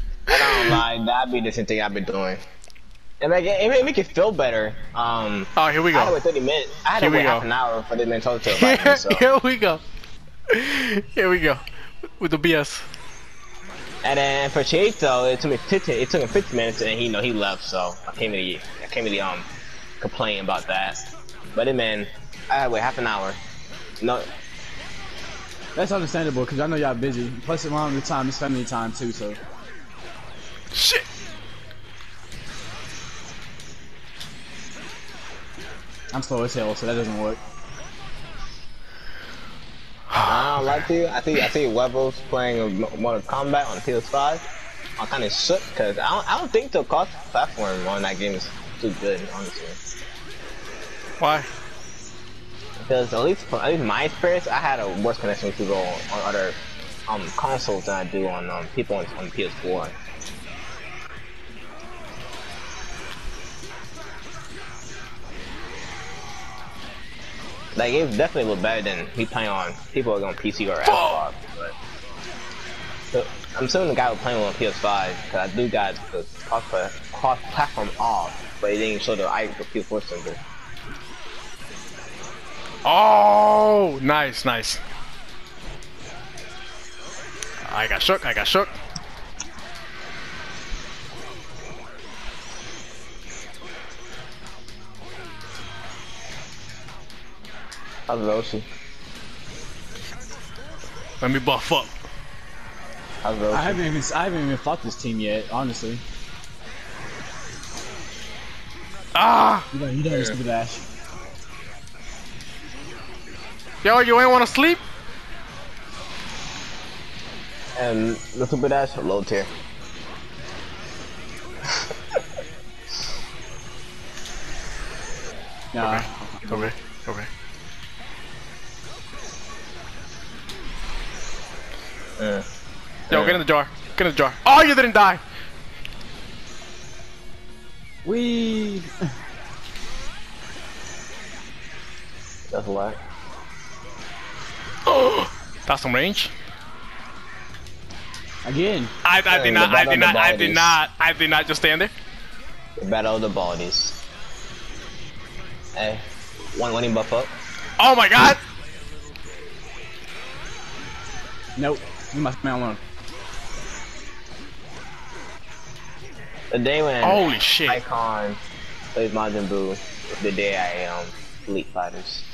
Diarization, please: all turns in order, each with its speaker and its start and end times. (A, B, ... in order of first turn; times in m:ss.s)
0:00.3-0:02.4 A
0:00.4-0:00.8 B
0:03.2-0:09.3 A
0:05.6-0:06.2 B
0:06.9-0:07.5 B
0:08.4-0:09.8 B
0:10.5-0:11.6 B
0:12.2-0:12.9 B
0:14.0-0:19.5 A
0:20.0-0:23.4 A
0:24.0-0:24.3 A
0:25.8-0:29.4 C
0:30.7-0:31.1 B
0:36.1-0:37.4 C
0:40.1-0:40.9 B
0:40.3-0:44.4 A
0:45.0-0:49.8 A
0:51.2-0:51.5 B
0:52.8-0:59.9 A
1:07.8-1:11.7 A
1:10.8-1:11.3 B
1:13.1-1:20.4 A
1:22.8-1:24.8 B
1:27.6-1:28.8 B
1:38.1-1:38.7 A
1:41.2-1:41.9 B
1:43.2-1:43.8 A
1:43.5-1:46.0 C
1:49.2-1:49.7 B
1:49.7-1:50.8 C
1:53.8-1:54.8 B
1:57.8-1:59.5 A
2:05.7-2:06.7 C
2:05.8-2:07.3 B
2:12.2-2:12.5 A
2:13.1-2:13.4 A
2:13.1-2:15.2 B
2:18.0-2:18.9 C
2:22.5-2:23.0 A
2:24.9-2:26.3 B
2:28.4-2:28.9 C
2:29.0-2:31.9 B
2:29.3-2:30.8 A
2:32.8-2:34.0 A
2:35.8-2:37.3 A
2:37.8-2:38.4 B
2:41.6-2:42.8 C
2:46.5-2:48.4 A
2:47.0-2:47.8 B
2:49.0-2:52.2 A